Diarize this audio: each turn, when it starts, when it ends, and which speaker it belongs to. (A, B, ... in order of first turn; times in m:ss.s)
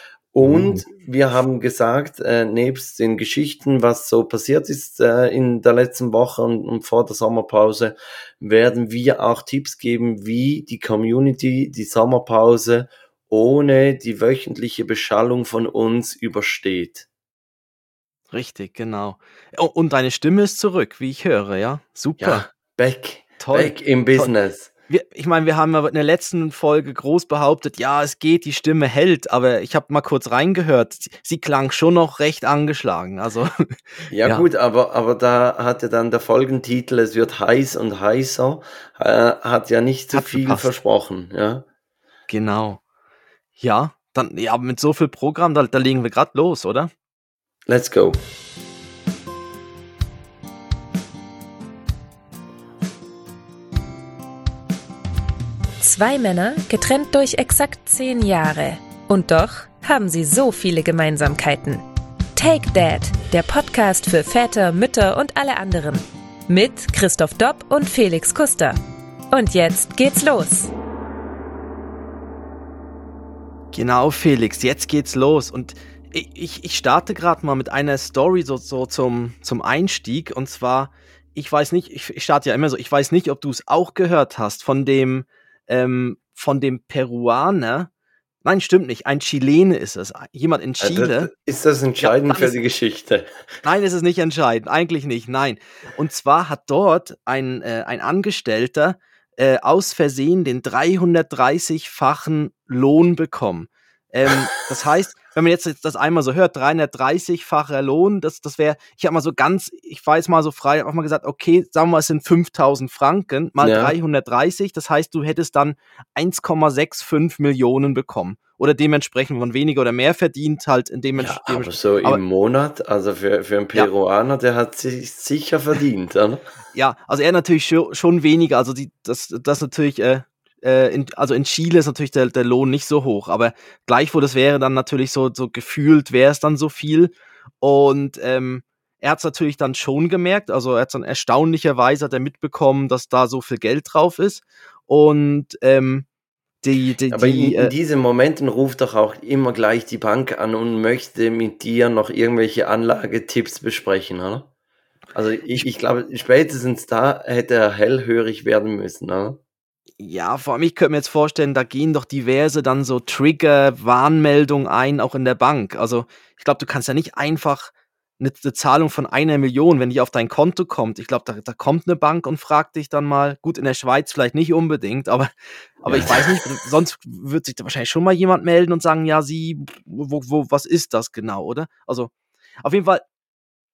0:00.3-0:17.0 A
0:00.4-0:00.8 B
0:18.3-0:22.4 B
0:22.2-0:24.7 A
0:23.4-0:24.3 B
0:24.9-0:34.5 B
0:34.1-0:41.6 A
0:40.1-0:40.7 B
0:42.3-0:42.8 B
0:43.6-0:46.9 B
0:47.7-0:48.2 A
0:55.8-1:01.8 C
1:02.4-1:08.8 C
1:09.3-1:10.7 C
1:13.7-1:27.9 B
1:28.4-1:31.3 B
1:30.8-1:33.3 A
1:32.0-1:32.6 B
1:33.6-2:02.2 B
1:53.6-1:54.0 A
2:01.2-2:06.4 A
2:06.7-2:26.1 B
2:26.6-2:27.7 B
2:27.1-2:34.5 A
2:35.1-2:39.4 A
2:40.0-2:55.3 B
2:55.8-3:02.1 B
2:55.9-2:56.2 A
3:02.6-3:03.0 B